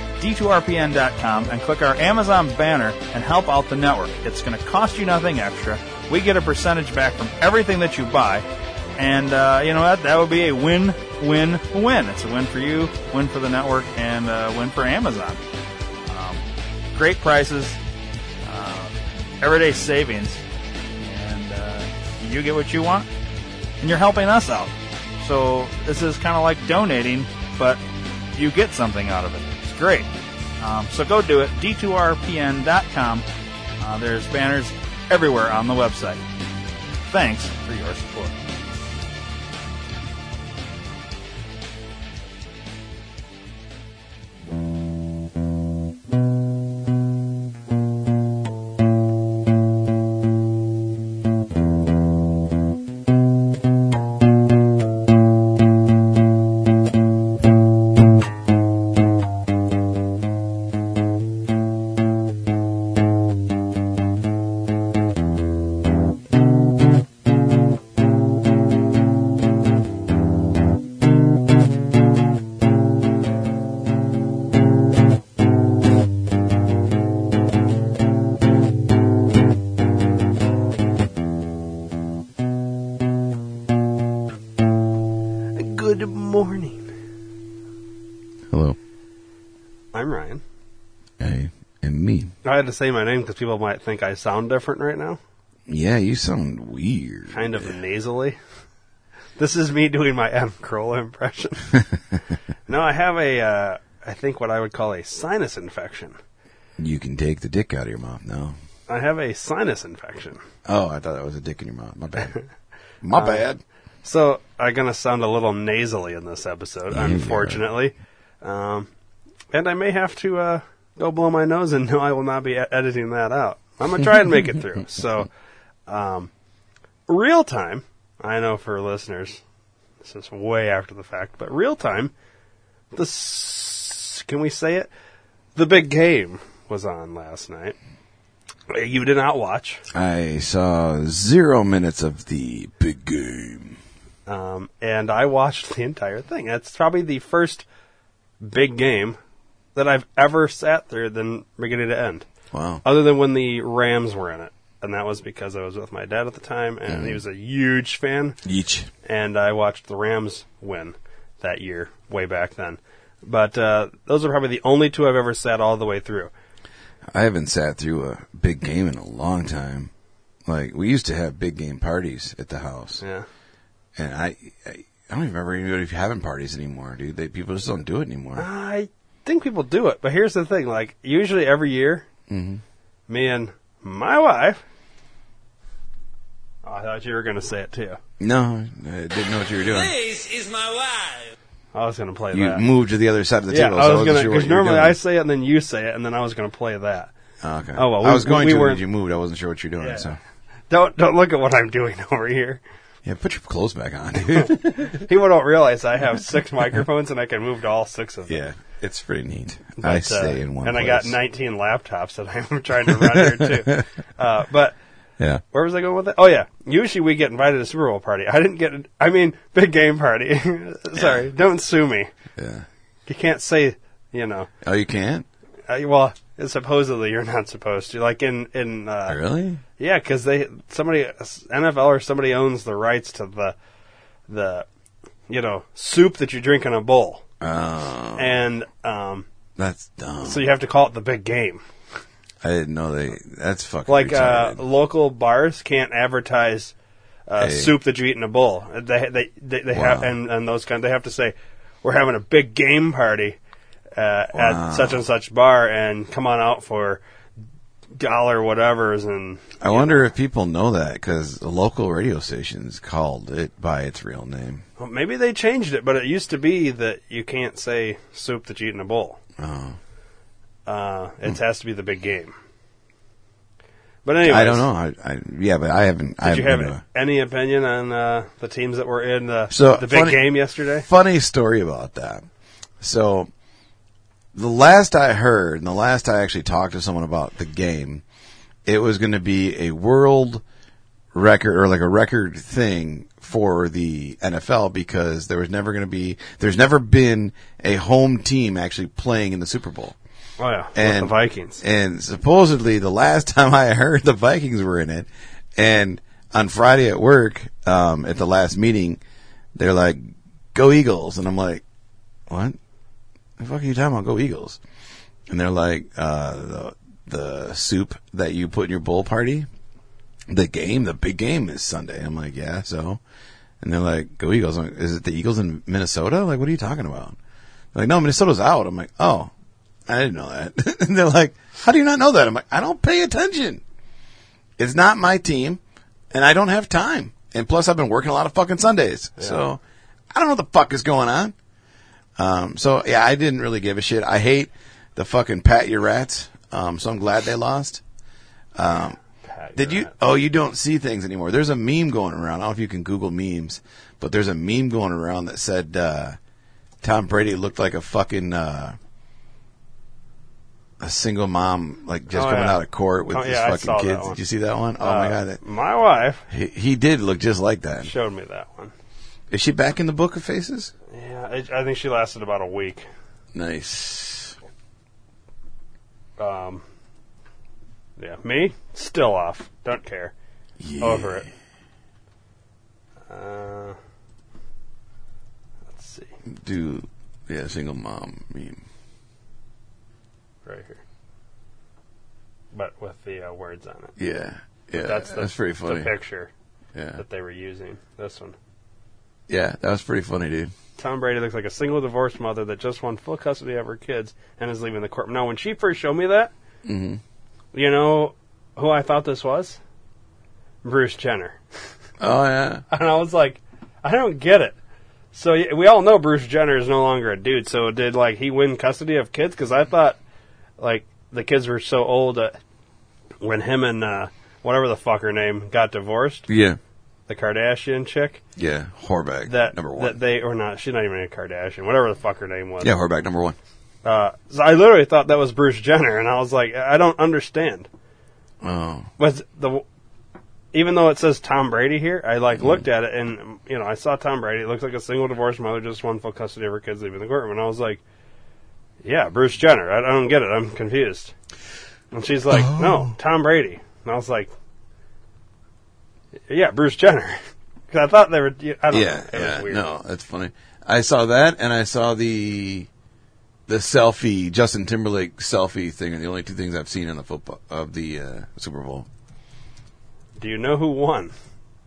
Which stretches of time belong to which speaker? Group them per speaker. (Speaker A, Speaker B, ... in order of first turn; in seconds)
Speaker A: 0.2-8.5, 9.0-15.4, 16.1-16.4, 16.9-17.8, 18.4-20.4, 21.0-23.1, 23.8-27.8, 28.4-30.1, 30.6-33.2, 33.8-36.2, 37.1-38.3
Speaker B: 85.6-86.9, 89.9-90.4, 92.5-95.2, 97.3-98.4, 99.4-101.7, 102.7-106.2, 108.9-110.4, 112.2-112.5, 113.1-113.5, 114.0-118.9, 119.5-125.3, 125.9-126.3, 127.1-129.4, 130.0-132.1, 132.9-134.9, 135.6-137.8, 138.7-139.8, 144.3-147.7, 148.4-149.2, 149.8-152.3, 152.8-158.4, 159.1-166.3, 173.0-173.3, 178.4-182.1, 183.1-184.6, 186.6-188.0, 191.7-192.7, 193.5-197.1, 197.8-198.8, 199.8-200.2, 200.7-202.6, 204.3-208.4, 209.8-214.8, 215.5-222.1, 223.1-224.5, 225.7-229.2, 229.8-233.6, 234.3-234.7, 235.3-237.2, 238.2-239.3, 240.2-241.6, 243.9-246.7, 247.3-253.4, 254.0-257.0, 257.9-260.1, 264.8-269.2, 270.7-272.3, 274.1-274.7, 276.2-280.9, 300.4-301.6, 339.2-339.5, 349.2-349.9, 362.1-364.2, 364.8-366.3, 367.8-368.7, 370.9-372.9, 376.2-376.6, 378.0-380.1, 380.8-381.3, 383.1-383.8, 385.7-386.1, 390.5-390.8, 392.5-393.9, 394.8-396.3, 397.0-398.4, 400.8-406.3, 407.5-409.6, 410.6-411.4, 412.7-414.6, 415.1-420.0, 420.6-422.4, 423.2-426.3, 427.1-428.2, 429.3-432.7, 433.8-437.7, 439.0-439.6, 440.5-447.8, 448.8-451.1, 451.9-454.3, 456.3-459.6, 470.2-471.1
Speaker C: 88.5-88.8, 91.2-92.3, 95.7-97.8, 106.8-108.6, 110.7-112.3, 113.0-113.6, 116.9-117.7, 139.9-143.8, 152.5-152.8, 156.9-157.2, 158.4-158.9, 167.1-169.9, 170.5-173.0, 173.9-178.5, 182.3-182.6, 188.2-190.0, 192.3-195.0, 197.4-200.2, 203.0-205.0, 208.3-211.2, 212.9-213.8, 221.0-221.3, 222.4-222.7, 224.6-225.3, 229.1-229.6, 237.4-238.4, 239.6-240.5, 242.4-244.7, 247.4-247.8, 249.7-250.1, 254.3-255.0, 259.6-264.6, 269.4-269.8, 274.2-276.8, 279.5-282.3, 282.8-283.3, 284.4-288.0, 288.6-290.4, 291.1-300.0, 300.8-309.0, 309.6-311.6, 312.3-312.6, 313.4-314.6, 315.3-319.5, 320.3-323.0, 323.6-327.2, 327.7-329.3, 329.9-333.6, 334.6-335.6, 336.1-339.6, 340.1-341.3, 342.2-347.8, 348.6-349.0, 349.6-356.2, 356.8-358.8, 360.8-365.4, 366.3-367.9, 369.3-370.7, 373.3-374.4, 380.6-381.3, 386.3-388.6, 394.0-395.9, 396.7-397.0, 399.3-400.5, 406.6-407.0, 412.0-412.6, 426.3-426.6, 428.4-430.0, 432.6-433.4, 438.4-438.9, 442.4-442.6, 452.3-453.0, 458.7-462.7, 463.5-468.9